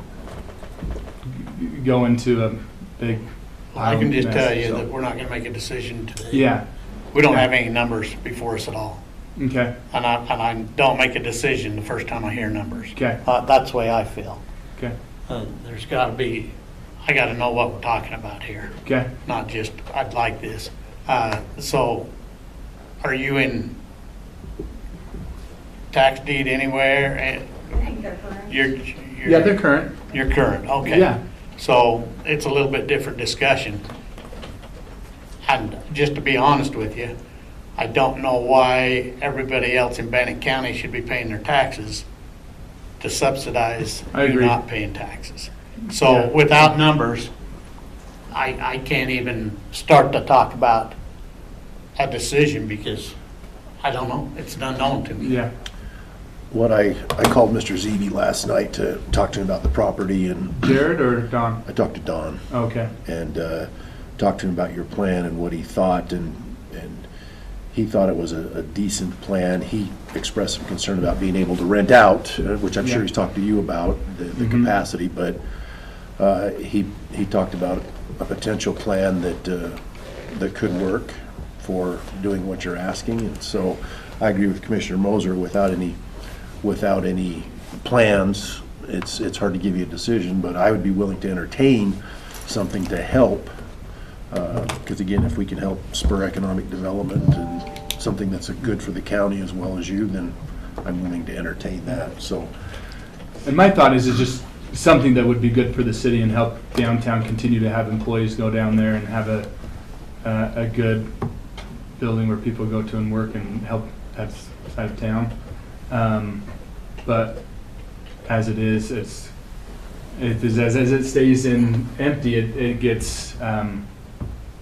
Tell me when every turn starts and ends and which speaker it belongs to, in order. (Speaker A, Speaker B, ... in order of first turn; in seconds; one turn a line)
Speaker A: 1.3-3.2
Speaker B: 3.7-6.5
Speaker A: 3.8-4.8
Speaker A: 6.3-6.6
Speaker B: 7.1-9.0
Speaker A: 9.4-9.7
Speaker B: 9.9-14.4
Speaker B: 15.3-16.5
Speaker B: 17.0-22.1
Speaker A: 18.8-19.1
Speaker B: 23.0-23.7
Speaker B: 25.9-33.8
Speaker A: 29.2-30.0
Speaker A: 30.9-31.2
Speaker B: 35.5-37.1
Speaker B: 37.8-42.0
Speaker B: 43.0-47.3
Speaker A: 44.1-44.6
Speaker A: 46.0-46.4
Speaker B: 48.3-51.0
Speaker B: 52.0-53.1
Speaker B: 53.8-55.4
Speaker A: 55.2-55.5
Speaker C: 56.5-60.8
Speaker A: 60.6-61.6
Speaker C: 61.7-62.5
Speaker A: 62.5-62.9
Speaker C: 63.0-67.1
Speaker C: 67.7-75.4
Speaker A: 74.4-74.7
Speaker C: 76.2-79.8
Speaker C: 80.3-86.0
Speaker C: 86.6-93.5
Speaker C: 94.3-102.5
Speaker A: 103.5-109.5
Speaker A: 110.2-111.1
Speaker A: 112.0-117.5
Speaker A: 118.2-119.3
Speaker A: 120.2-123.9